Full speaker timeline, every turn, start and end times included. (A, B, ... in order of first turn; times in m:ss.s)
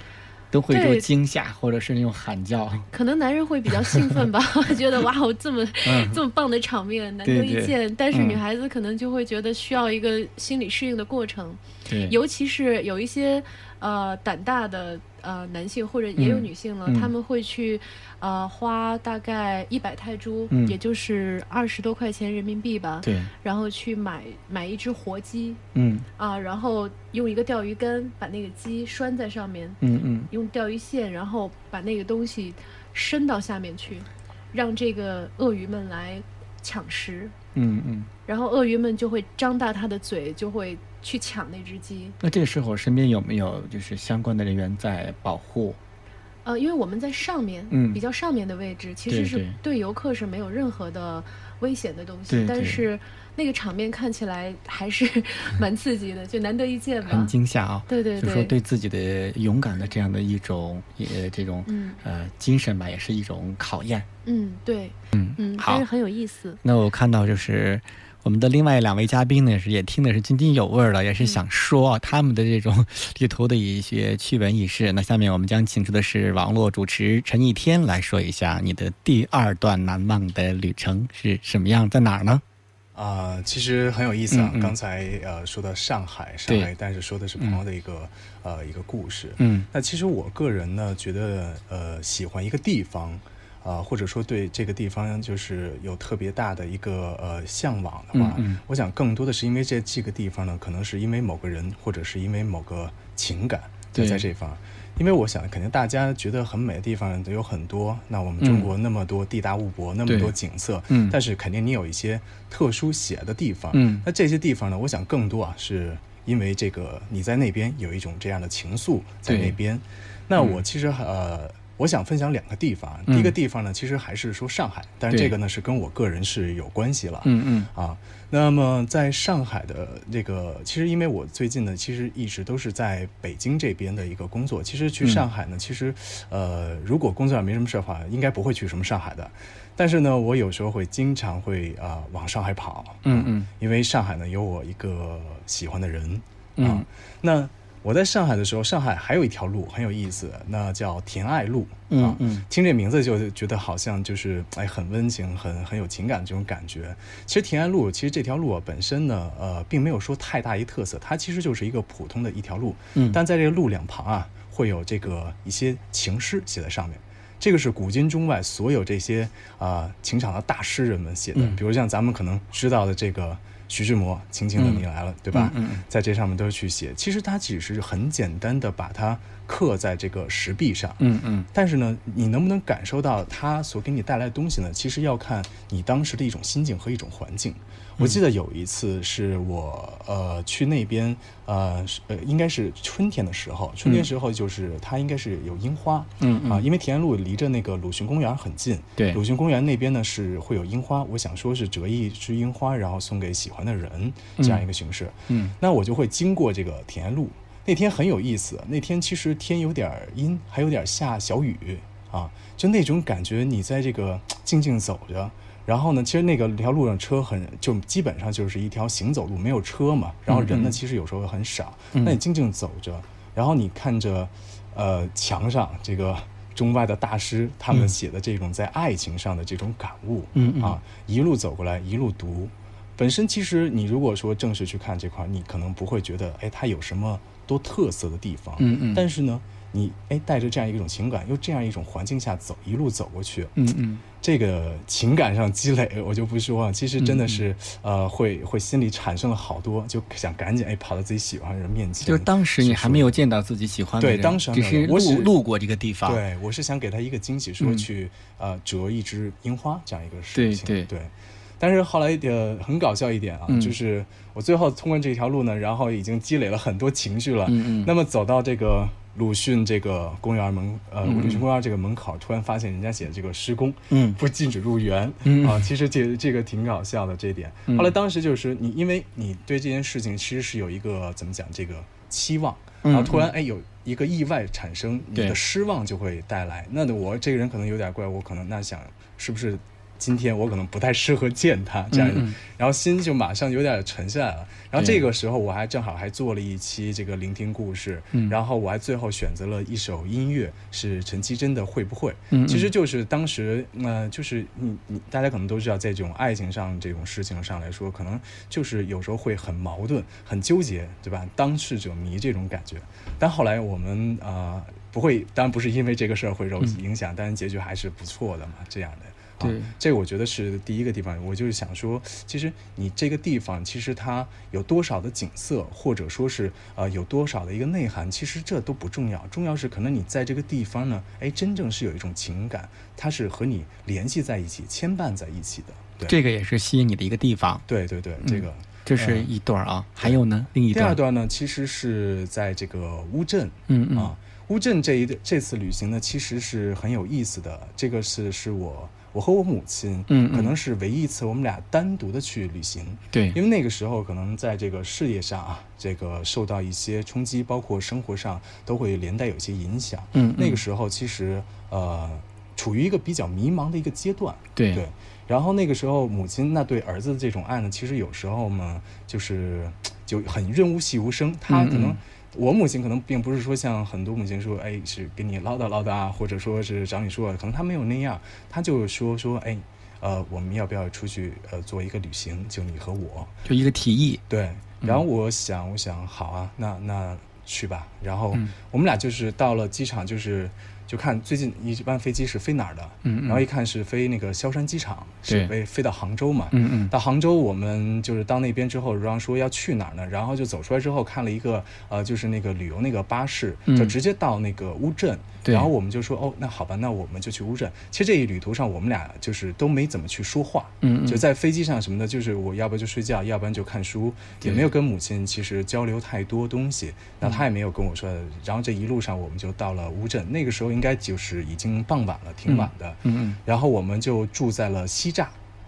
0:00.5-0:02.9 A
0:00.7-0:01.1 B
0:02.9-0:25.6 B
0:05.8-0:06.2 A
0:07.2-0:08.4 A
0:11.9-0:12.2 A
0:16.2-0:17.1 A
0:23.0-0:23.3 A
0:25.7-0:26.0 A
0:26.2-0:29.8 B
0:29.8-0:30.3 A
0:30.3-0:37.3 B
0:37.5-0:38.1 A
0:38.3-0:42.2 B
0:42.2-0:45.8 A
0:46.4-0:57.3 B
0:47.7-0:48.0 A
0:49.1-0:49.6 A
0:52.3-0:52.8 A
0:57.0-1:04.1 A
0:57.9-0:58.5 B
1:01.6-1:02.0 B
1:04.2-1:06.6 B
1:05.1-1:05.8 A
1:06.6-1:22.4 A
1:22.9-4:03.5 C
1:24.3-1:24.7 A
1:29.4-1:29.7 A
1:38.1-1:38.6 A
1:43.9-1:44.3 A
1:48.4-1:48.7 A
1:50.1-1:50.3 A
1:50.9-1:51.2 A
1:53.7-1:54.0 A
1:59.2-1:59.6 A
2:03.1-2:03.3 A
2:07.2-2:07.7 A
2:23.0-2:23.5 A
2:26.6-2:26.8 A
2:31.9-2:32.4 A
2:42.9-2:43.2 A
2:54.6-2:55.8 A
3:01.0-3:01.5 A
3:16.2-3:16.6 A
3:24.4-3:24.6 A
3:25.3-3:25.5 A
3:40.3-3:40.8 A
3:50.3-3:50.8 A
3:58.6-3:59.0 A
4:03.6-4:04.0 A
4:04.2-4:13.2 C
4:07.0-4:07.4 A
4:12.0-4:16.2 A
4:14.0-4:15.3 C
4:16.0-5:36.2 C
4:17.6-4:17.8 A
4:20.3-4:20.9 A
4:23.5-4:23.7 A
4:27.5-4:27.9 A
4:31.0-4:31.4 A
4:33.9-4:34.2 A
4:35.2-4:35.7 A
4:42.8-4:43.3 A
4:51.9-4:52.3 A
4:54.8-4:55.0 A
5:02.3-5:02.7 A
5:19.4-5:19.7 A
5:36.1-5:37.6 A
5:37.7-5:39.3 C
5:38.2-5:41.0 A
5:40.7-6:23.3 C
5:43.7-5:44.1 A
5:50.1-5:50.5 A
5:53.1-5:53.4 A
6:00.1-6:00.6 A
6:04.6-6:04.8 A
6:11.5-6:12.0 A
6:23.4-6:24.2 A
6:24.3-7:05.4 C
6:33.0-6:33.4 A
6:35.3-6:35.5 A
6:36.5-6:36.9 A
6:43.7-6:43.9 A
6:45.4-6:45.7 A
6:50.8-6:51.2 A
7:02.5-7:03.4 A